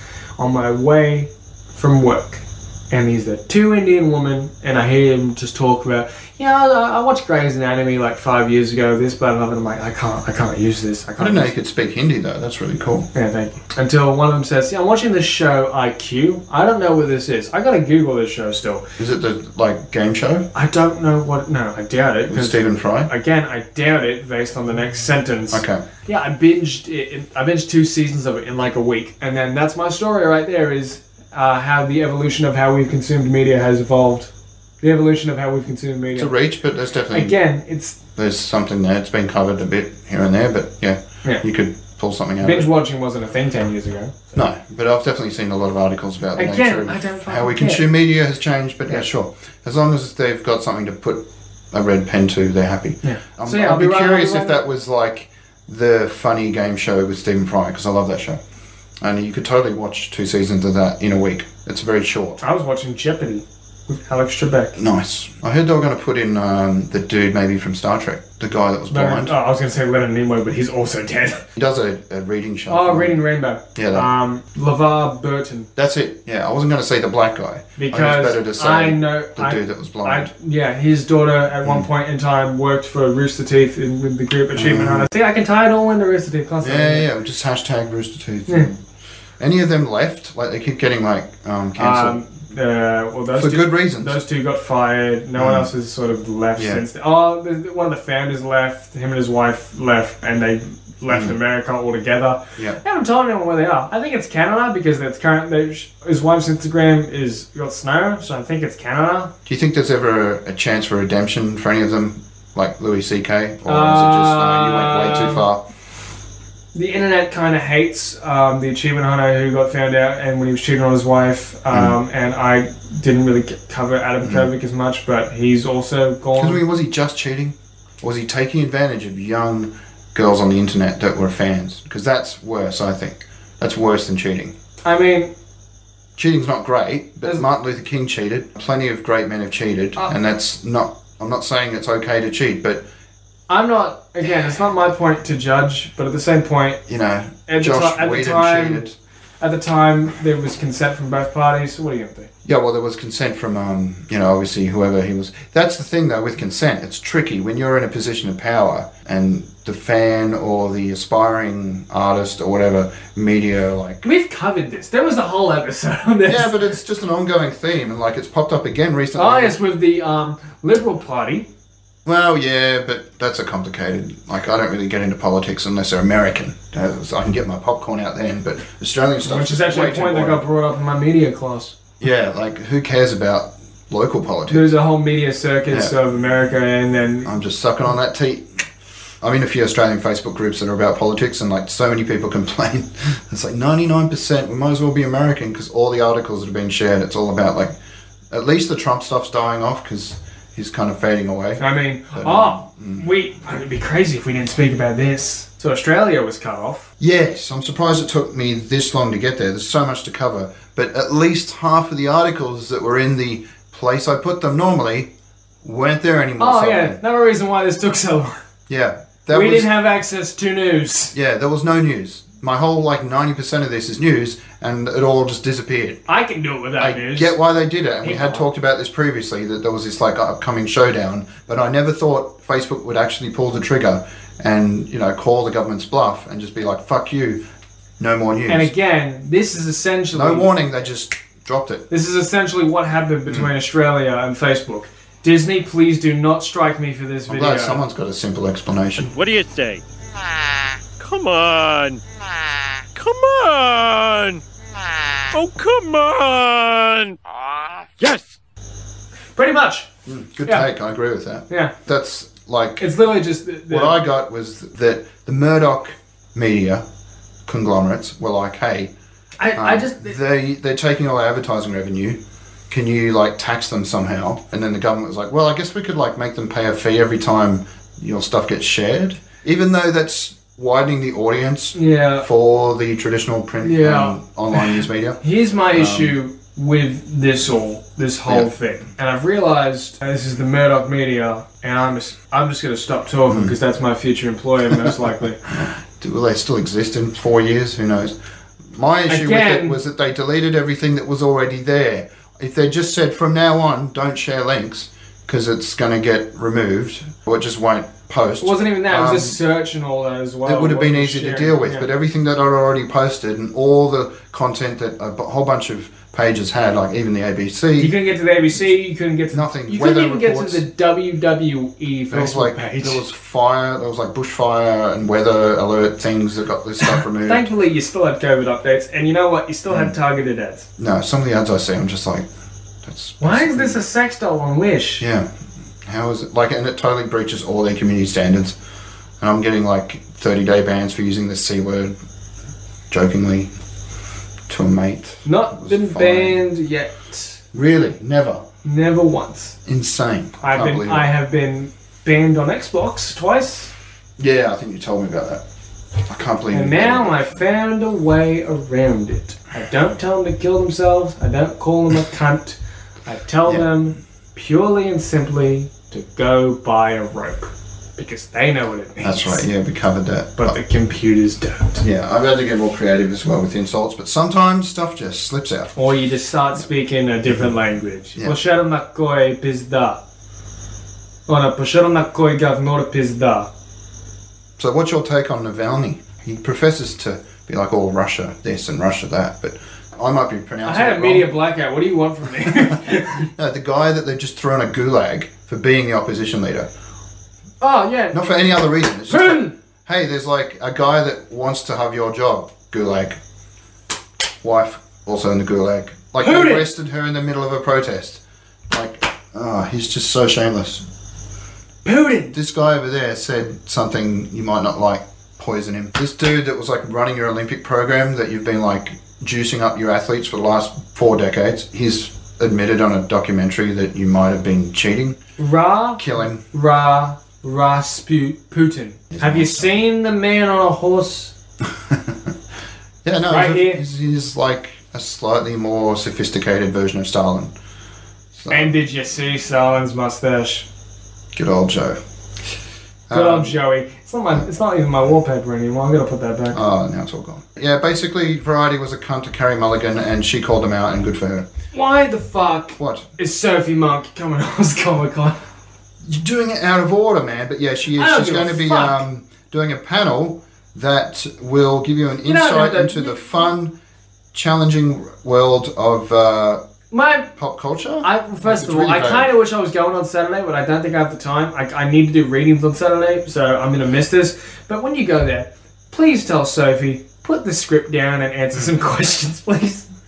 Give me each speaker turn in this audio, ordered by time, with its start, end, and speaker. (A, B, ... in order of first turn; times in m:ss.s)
0:00.4-0:11.5 A
0:11.2-0:13.1 B
0:13.1-0:18.9 A
0:19.0-0:20.5 B
0:20.5-0:34.3 A
0:22.3-0:23.1 B
0:25.5-0:25.8 B
0:34.8-0:36.3 A
0:36.1-0:37.4 B
0:37.1-0:38.0 A
0:38.1-0:42.7 B
0:42.4-0:44.2 A
0:44.3-0:58.4 B
0:46.4-0:47.8 A
0:53.0-0:54.6 A
0:59.0-1:02.4 B
1:02.4-1:04.8 A
1:04.8-1:09.3 B
1:08.9-1:11.4 A
1:11.5-1:13.2 B
1:12.7-1:15.7 A
1:13.7-1:14.1 B
1:15.8-1:20.3 B
1:17.8-1:27.0 A
1:24.5-1:25.1 B
1:26.6-1:28.8 B
1:29.4-1:32.2 B
1:31.8-1:49.3 A
1:33.3-1:34.2 B
1:35.4-1:35.7 B
1:36.6-1:36.8 B
1:41.1-1:41.4 B
1:49.4-1:55.6 B
1:53.6-1:55.5 A
1:56.7-2:06.6 A
2:04.2-2:04.5 B
2:06.4-2:14.5 B
2:14.8-2:15.3 A
2:16.2-2:22.8 B
2:23.5-2:26.8 A
2:26.9-2:28.9 B
2:27.5-2:28.8 A
2:29.4-2:32.3 A
2:32.4-2:44.0 B
2:44.0-2:46.5 A
2:46.2-2:49.6 B
2:49.2-2:51.5 A
2:52.0-3:00.4 B
2:59.2-3:01.7 A
3:02.0-3:04.7 B
3:04.5-3:07.3 A
3:07.2-3:08.6 B
3:09.2-3:17.7 B
3:18.3-3:21.6 B
3:21.6-3:26.9 A
3:22.1-3:23.0 B
3:27.0-3:35.1 B
3:35.6-3:37.0 B
3:36.4-3:38.4 A
3:38.7-3:39.7 B
3:39.3-3:41.1 A
3:41.1-3:46.0 B
3:46.1-3:47.4 A
3:46.8-3:57.4 B
3:48.0-3:48.4 A
3:58.0-3:58.7 B
3:58.5-4:00.5 A
4:00.1-4:01.8 B
4:01.9-4:07.8 A
4:03.3-4:03.5 B
4:07.3-4:09.1 B
4:09.1-4:09.8 C
4:11.0-4:12.0 C
4:12.9-4:14.4 C
4:15.3-4:18.4 C
4:19.4-4:19.9 A
4:20.0-4:22.9 B
4:21.5-4:21.7 A
4:22.8-4:24.0 A
4:23.7-4:26.8 B
4:27.4-4:28.9 B
4:29.4-4:30.1 A
4:29.5-4:45.2 B
4:41.7-4:42.2 A
4:43.6-4:55.5 A
4:45.7-4:46.1 B
4:53.3-4:53.5 B
4:55.5-4:58.1 B
4:58.7-5:09.4 B
4:59.1-4:59.8 A
5:08.4-5:11.9 A
5:10.4-5:17.9 B
5:17.8-5:23.0 A
5:19.3-5:20.6 B
5:22.1-5:27.5 B
5:26.8-5:30.7 A
5:29.7-5:29.9 B
5:30.8-5:32.3 B
5:32.8-5:33.8 B
5:33.2-5:35.0 A
5:35.0-5:35.3 B
5:35.8-5:38.5 B
5:39.2-5:41.9 B
5:42.9-5:43.5 B
5:44.5-5:46.4 B
5:45.2-5:47.4 A
5:47.5-5:48.4 B
5:48.6-5:49.6 A
5:49.6-5:51.1 B
5:50.4-5:53.7 A
5:54.2-5:55.4 B
5:56.0-5:57.2 B
5:56.5-6:09.4 A
6:09.0-6:10.5 B
6:10.4-6:11.8 A
6:11.8-6:15.8 B
6:15.8-6:20.0 A
6:17.3-6:17.5 B
6:21.3-6:23.5 A
6:24.6-6:31.3 B
6:30.6-6:33.3 A
6:33.1-6:36.7 B
6:37.6-6:38.2 A
6:38.1-6:43.2 B
6:39.1-6:39.5 A
6:44.4-6:50.8 B
6:46.2-6:46.7 A
6:51.8-6:52.3 A
6:52.3-7:05.2 B
7:05.4-7:11.3 A
7:06.0-7:06.4 B
7:09.1-7:09.7 B
7:11.9-7:12.2 B
7:13.0-7:17.5 B
7:13.3-7:13.8 A
7:18.3-7:18.7 B
7:18.5-7:20.7 A
7:21.3-7:22.0 B
7:23.1-7:23.5 B
7:23.1-7:26.6 A
7:26.5-7:31.5 B
7:31.7-7:35.4 A
7:32.8-7:33.1 B
7:36.0-7:43.7 B
7:37.9-7:39.0 A
7:42.2-7:43.4 A
7:44.3-7:46.6 B
7:46.9-7:47.3 A
7:47.4-7:49.3 B
7:48.0-7:59.9 A